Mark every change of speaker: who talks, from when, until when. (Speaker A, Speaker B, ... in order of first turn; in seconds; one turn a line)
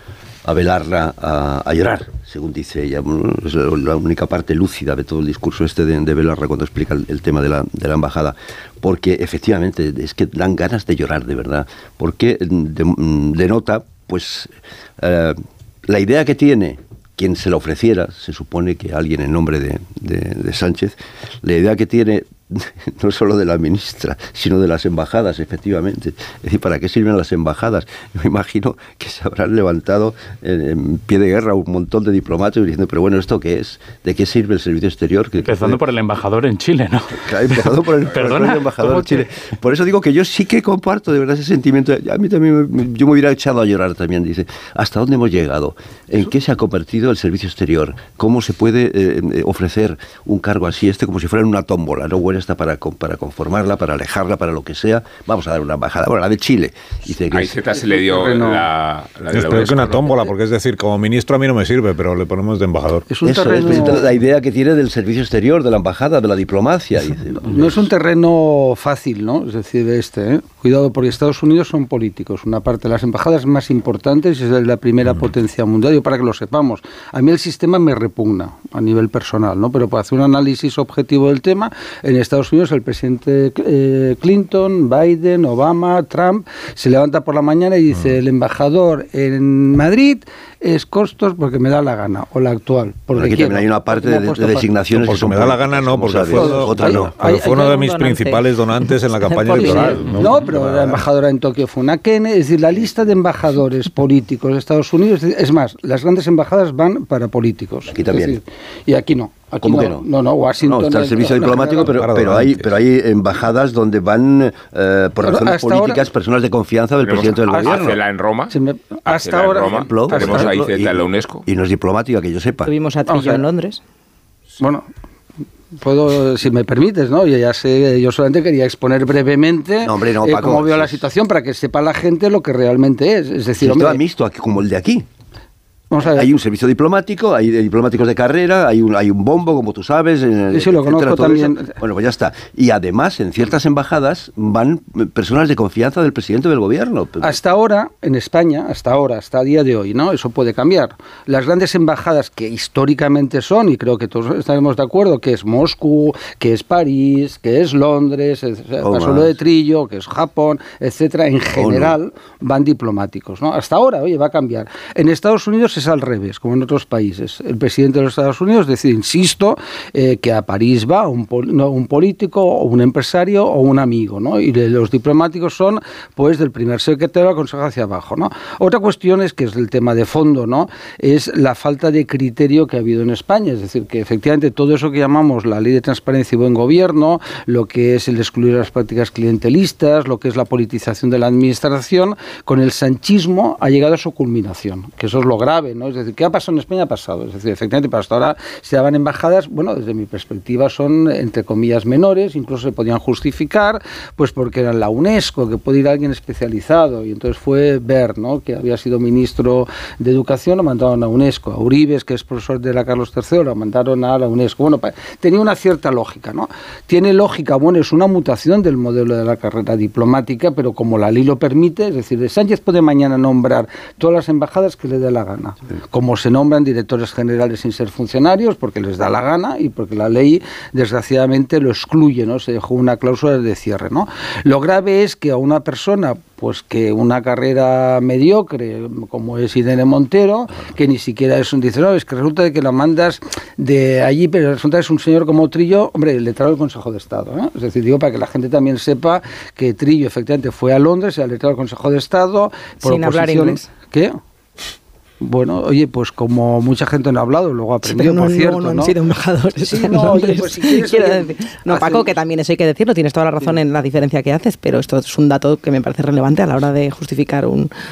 Speaker A: 0.4-35.8
Speaker B: 35.4-39.3
Speaker A: 37.2-57.5
Speaker C: 57.3-60.1
Speaker D: 57.7-58.7
Speaker E: 59.3-63.1
Speaker D: 63.1-64.1
Speaker A: 63.2-67.8
Speaker D: 67.4-94.7
Speaker A: 93.1-97.1
Speaker E: 94.9-101.0
Speaker D: 96.3-97.7
Speaker F: 97.2-98.4
Speaker F: 99.3-100.1
Speaker D: 99.5-112.0
Speaker A: 107.9-108.4
Speaker A: 109.6-110.0
Speaker A: 110.6-118.0
Speaker E: 111.9-112.7
Speaker D: 115.2-116.0
Speaker C: 117.0-118.5
Speaker D: 117.5-120.6
Speaker C: 119.0-121.4
Speaker A: 119.7-122.7
Speaker F: 122.6-123.8
Speaker D: 123.1-123.4
Speaker D: 124.6-124.9
Speaker D: 125.7-134.0
Speaker A: 129.8-131.0
Speaker A: 133.6-135.1
Speaker D: 135.9-136.3
Speaker A: 136.0-147.4
Speaker D: 140.5-141.8
Speaker D: 147.2-254.2
Speaker A: 158.8-159.3
Speaker A: 161.4-162.0
Speaker F: 252.8-253.7
Speaker D: 255.2-258.9
Speaker F: 257.8-267.7
Speaker D: 259.6-262.2